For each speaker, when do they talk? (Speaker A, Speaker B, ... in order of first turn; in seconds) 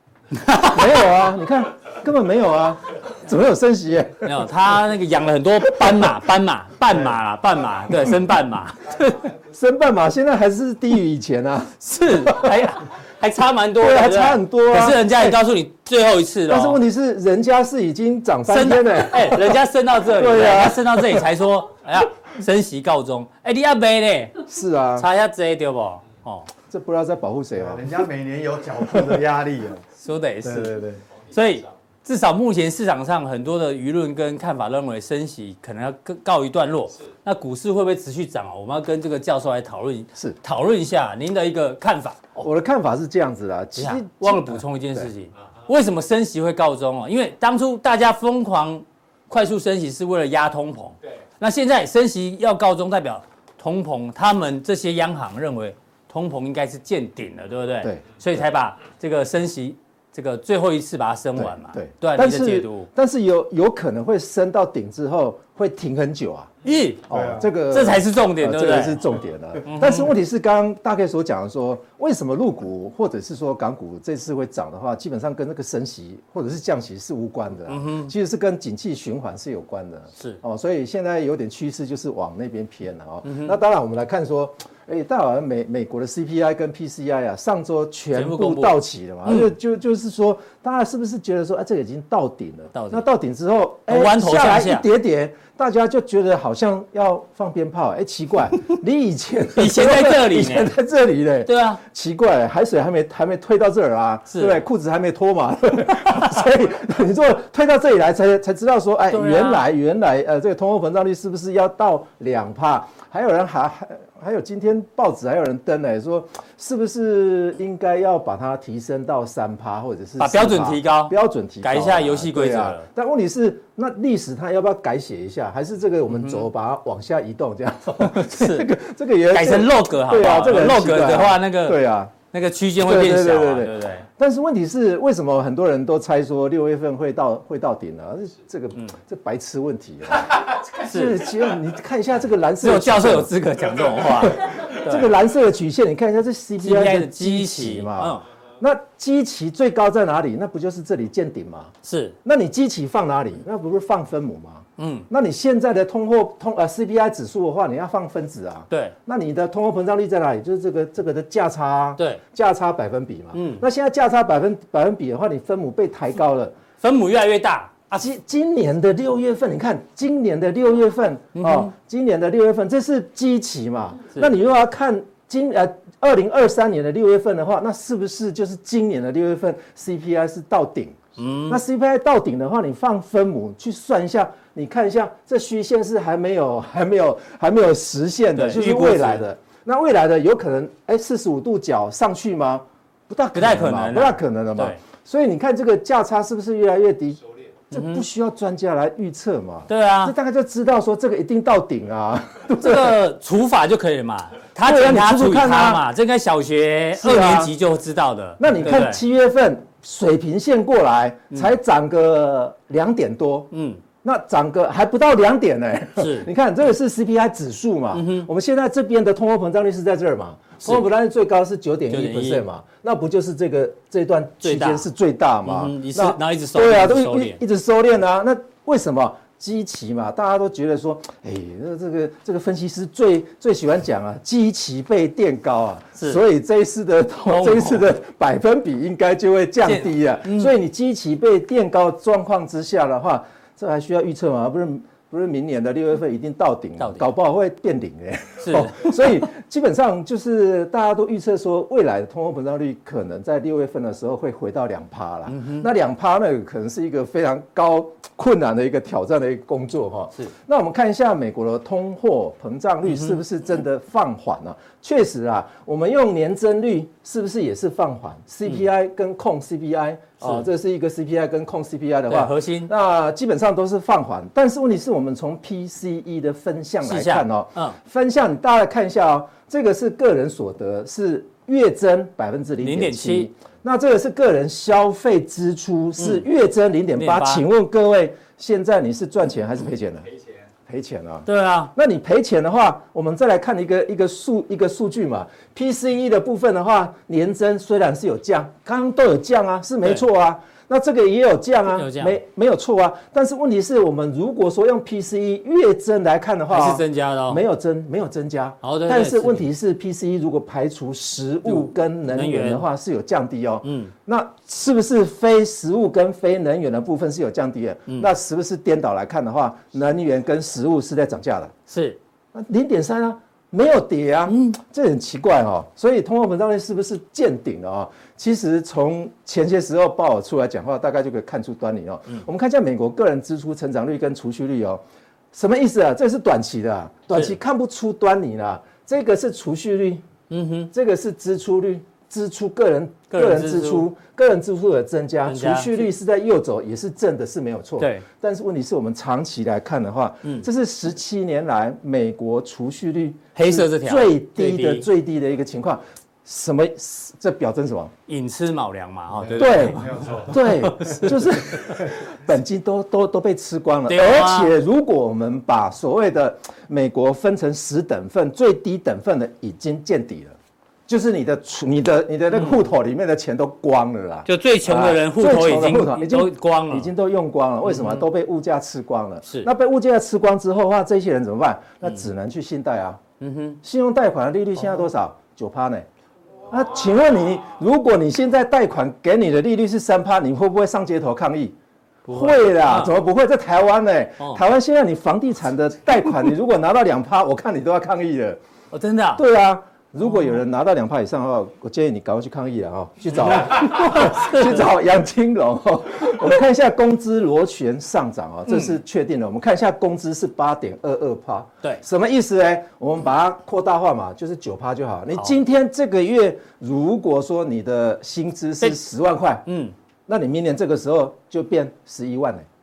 Speaker A: 0.4-0.8, 4.2-9.2, 11.8-16.8, 18.5-24.4, 25.0-26.5, 30.0-30.8, 31.3-42.4, 43.8-62.9, 66.6-67.1, 67.7-69.0, 69.6-70.1, 77.7-78.1, 83.2-83.5, 88.1-89.4, 92.7-93.0, 93.9-94.8, 99.6-100.7, 101.4-101.8, 104.3-104.6, 109.1-109.6, 120.2-122.8, 126.2-126.4, 128.0-128.7, 129.3-134.1, 140.8-141.2, 142.6-145.1, 146.6-148.2, 151.8-152.2, 154.8-155.1, 163.3-163.6, 166.8-167.8, 171.3-171.7, 181.2-181.6, 188.3-189.2, 193.3-194.8, 197.7-198.0, 199.7-200.1, 202.6-209.0, 213.5-213.8, 216.0-216.3, 217.9-218.3, 221.9-222.4, 224.4-224.9, 225.4-227.4, 236.0-236.2, 237.3-237.8, 239.6-240.5, 246.8-247.1, 248.4-249.1, 255.3-255.7, 270.2-270.4, 272.1-272.7, 276.8-277.8, 282.6-283.3, 286.9-287.4, 291.2-291.7, 301.7-302.2, 306.5-307.4, 308.6-309.4, 311.5-312.6, 313.6-313.9, 321.7-322.0, 324.3-324.6, 340.3-340.7, 343.1-343.9, 345.3-345.8, 347.8-348.0, 353.3-354.9, 358.1-361.1, 363.9-364.5, 374.2-376.9, 377.7-378.0, 383.2-383.6, 392.1-392.9, 398.7-399.2, 403.4-404.6, 419.4-419.7
Speaker B: 0.6-4.5, 9.3-12.6, 13.8-15.4, 16.4-21.2, 24.5-25.1, 26.7-28.0, 28.9-29.2, 42.4-45.1, 61.4-66.5, 67.1-132.1, 132.8-166.6, 167.9-203.0, 204.6-205.9, 206.9-207.5, 208.4-213.5, 214.0-290.1, 290.7-321.5, 322.3-334.8, 335.3-340.0, 340.7-357.9, 359.4-370.4, 370.9-383.0, 383.6-385.9, 386.5-391.6, 392.1-398.4, 399.1-419.4, 420.1-422.5
Speaker C: 27.6-29.8, 30.4-31.0, 67.1-67.5, 359.8-360.2